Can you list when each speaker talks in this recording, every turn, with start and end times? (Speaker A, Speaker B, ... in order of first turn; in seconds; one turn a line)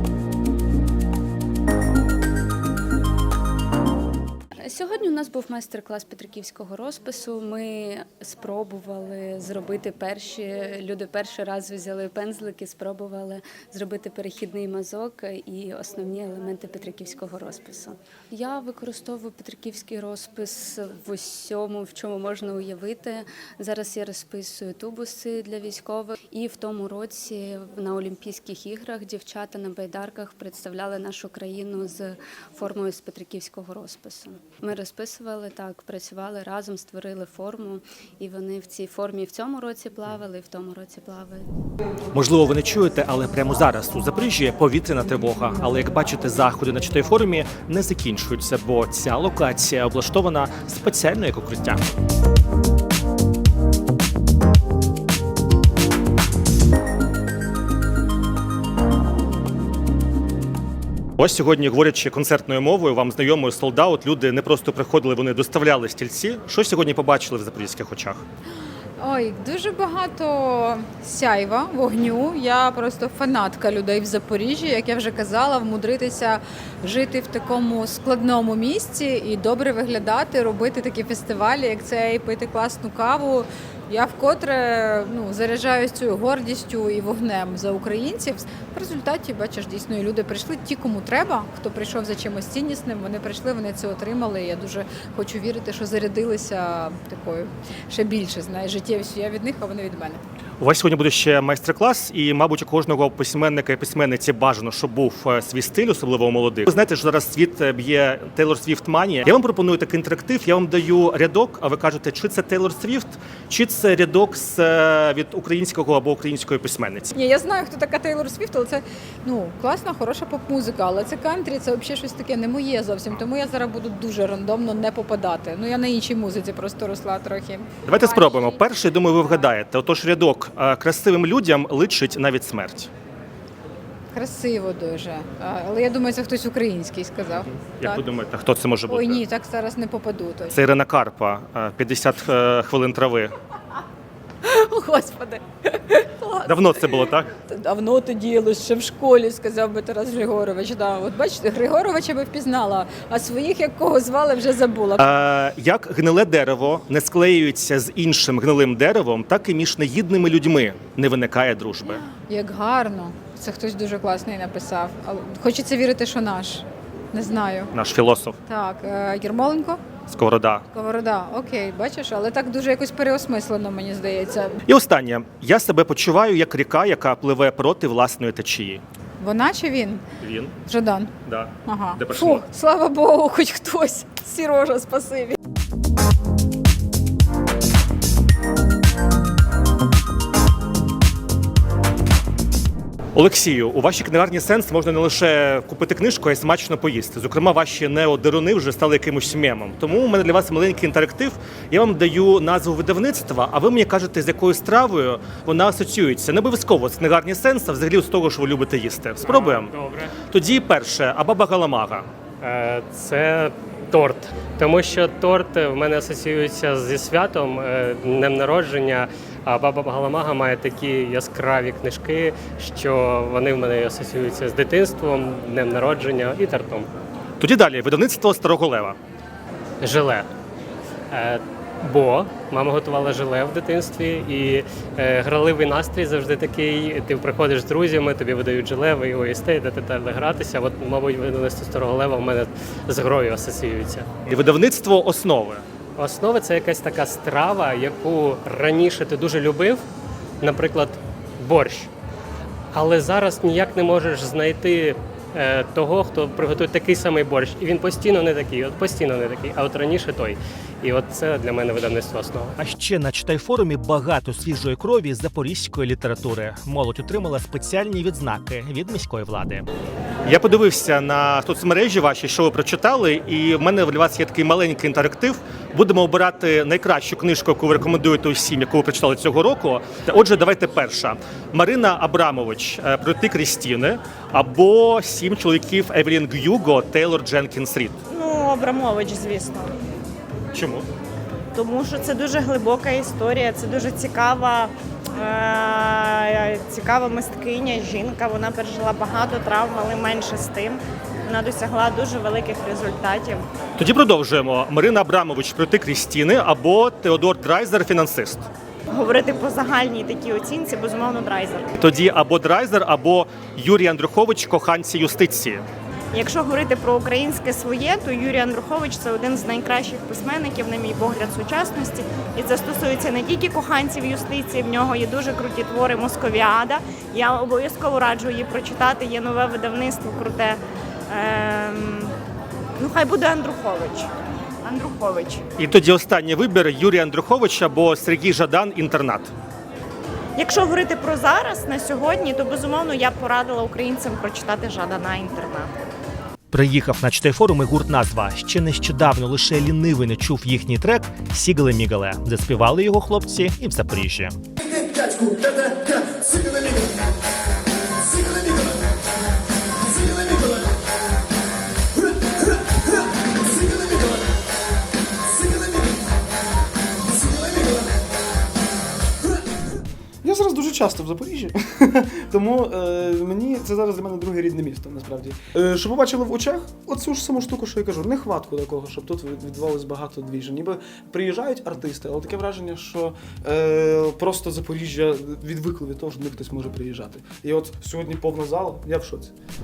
Speaker A: 4.6-41.4
Speaker B: 42.1-51.8
Speaker B: 61.2-68.2
Speaker C: 69.0-100.2
Speaker B: 100.6-117.1
Speaker C: 117.1-128.6
Speaker B: 127.8-132.9
Speaker C: 134.1-138.0
Speaker B: 137.5-139.2
Speaker C: 138.9-140.6
Speaker B: 140.5-143.3
Speaker C: 144.4-146.7
Speaker B: 146.4-147.3
Speaker C: 147.5-155.1
Speaker B: 155.0-162.0
Speaker C: 162.3-167.7
Speaker B: 167.7-168.4
Speaker C: 168.5-169.8
Speaker B: 170.1-170.6
Speaker C: 170.7-174.6
Speaker B: 174.7-178.8
Speaker C: 179.2-180.0
Speaker B: 180.2-180.6
Speaker C: 180.7-181.1
Speaker B: 181.2-182.4
Speaker C: 181.7-185.3
Speaker B: 193.1-209.7
Speaker D: 209.2-210.1
Speaker B: 210.3-212.1
Speaker D: 212.4-226.9
Speaker B: 227.4-229.0
Speaker D: 229.8-230.3
Speaker D: 231.1-244.1
Speaker B: 244.3-245.6
Speaker D: 246.0-249.8
Speaker D: 250.4-251.9
Speaker D: 252.7-262.6
Speaker B: 262.6-269.6
Speaker B: 270.2-288.0
Speaker E: 288.1-289.7
Speaker B: 290.5-290.9
Speaker E: 291.5-303.4
Speaker B: 303.8-308.5
Speaker E: 308.9-311.6
Speaker B: 311.8-315.6
Speaker E: 316.1-332.1
Speaker E: 332.8-334.1
Speaker E: 334.6-335.4
Speaker B: 335.6-339.3
Speaker E: 340.4-345.7
Speaker B: 346.5-354.4
Speaker F: 367.2-367.6
Speaker F: 370.2-389.3